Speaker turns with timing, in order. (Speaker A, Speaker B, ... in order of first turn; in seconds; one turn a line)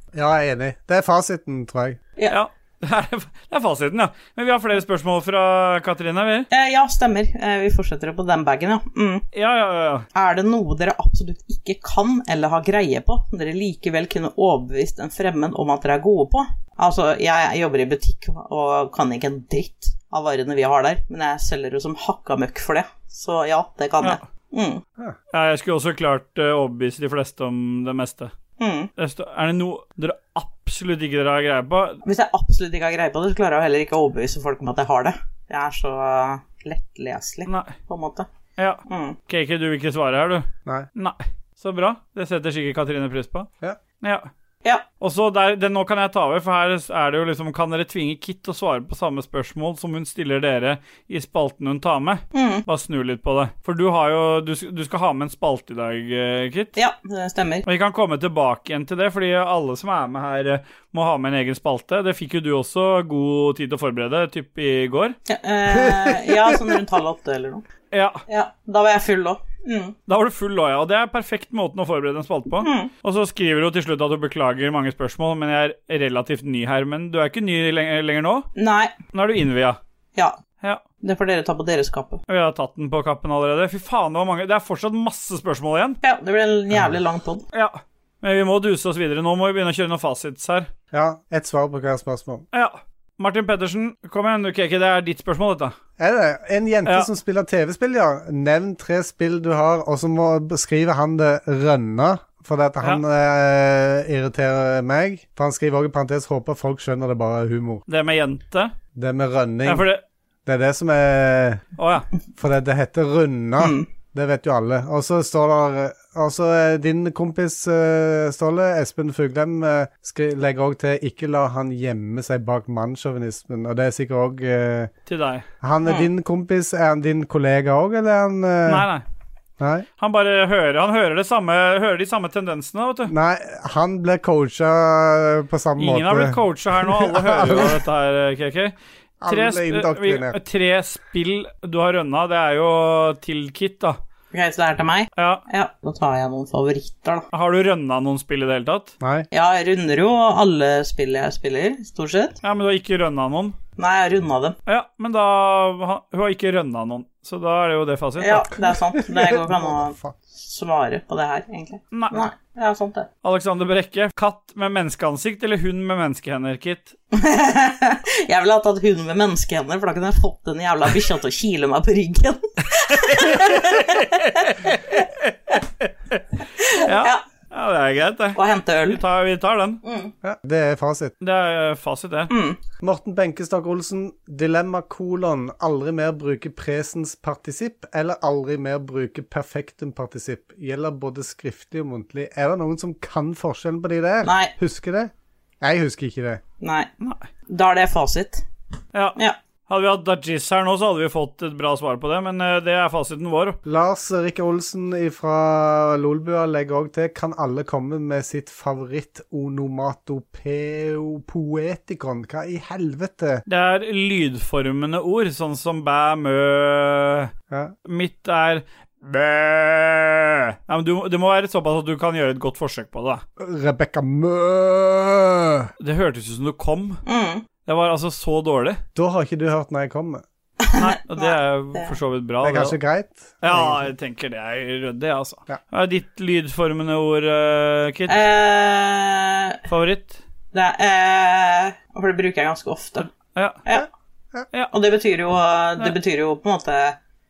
Speaker A: 0.1-2.0
Speaker B: 2.3-6.5
Speaker C: 6.5-9.3
Speaker B: 9.3-10.1
Speaker C: 10.1-24.8
Speaker B: 25.3-28.3
Speaker C: 28.6-28.9
Speaker B: 29.0-32.0
Speaker C: 32.0-38.3
Speaker B: 37.5-37.7
Speaker B: 38.6-43.5
Speaker C: 38.9-39.2
Speaker B: 44.0-44.3
Speaker B: 45.0-56.8
Speaker C: 52.3-52.7
Speaker C: 56.8-57.6
Speaker B: 57.7-65.2
Speaker C: 65.3-67.6
Speaker B: 67.9-68.2
Speaker C: 68.3-70.0
Speaker B: 70.1-78.5
Speaker C: 72.6-72.9
Speaker C: 78.6-78.9
Speaker B: 79.1-79.8
Speaker C: 81.0-82.2
Speaker B: 82.3-86.0
Speaker C: 86.0-87.5
Speaker B: 87.5-90.7
Speaker A: 90.9-92.5
Speaker B: 92.5-95.7
Speaker A: 96.0-107.8
Speaker B: 107.9-108.7
Speaker A: 109.0-109.9
Speaker B: 109.7-110.0
Speaker A: 110.5-111.6
Speaker B: 111.8-112.1
Speaker A: 112.4-124.9
Speaker C: 113.6-113.9
Speaker B: 125.1-125.5
Speaker A: 125.6-128.9
Speaker C: 125.8-126.1
Speaker B: 128.7-129.0
Speaker A: 129.6-129.9
Speaker B: 130.0-133.1
Speaker A: 133.1-137.8
Speaker B: 135.8-138.7
Speaker A: 139.2-140.4
Speaker B: 139.3-144.0
Speaker C: 144.3-147.3
Speaker B: 145.2-145.4
Speaker B: 147.3-148.9
Speaker A: 149.0-149.3
Speaker C: 149.3-152.4
Speaker B: 152.4-153.6
Speaker C: 153.8-154.6
Speaker B: 154.7-158.5
Speaker C: 158.2-163.1
Speaker A: 159.0-160.2
Speaker B: 161.9-162.3
Speaker B: 163.2-166.9
Speaker C: 167.1-174.5
Speaker B: 173.1-176.2
Speaker C: 176.6-177.2
Speaker B: 176.8-179.8
Speaker C: 178.3-179.0
Speaker C: 179.8-180.1
Speaker A: 180.2-181.1
Speaker B: 181.2-182.3
Speaker C: 182.3-182.6
Speaker A: 182.8-196.4
Speaker C: 194.2-194.5
Speaker C: 196.6-196.9
Speaker C: 197.5-198.4
Speaker B: 199.7-203.6
Speaker A: 203.7-213.4
Speaker B: 213.5-217.3
Speaker A: 217.5-217.7
Speaker B: 217.9-223.2
Speaker A: 223.4-225.7
Speaker B: 225.8-227.0
Speaker C: 227.1-227.4
Speaker B: 227.7-228.8
Speaker A: 228.9-230.2
Speaker C: 230.6-231.9
Speaker B: 230.8-232.8
Speaker A: 232.4-233.9
Speaker B: 233.4-238.2
Speaker C: 238.1-239.6
Speaker B: 239.7-240.2
Speaker C: 240.5-243.1
Speaker B: 243.3-243.6
Speaker C: 244.7-247.0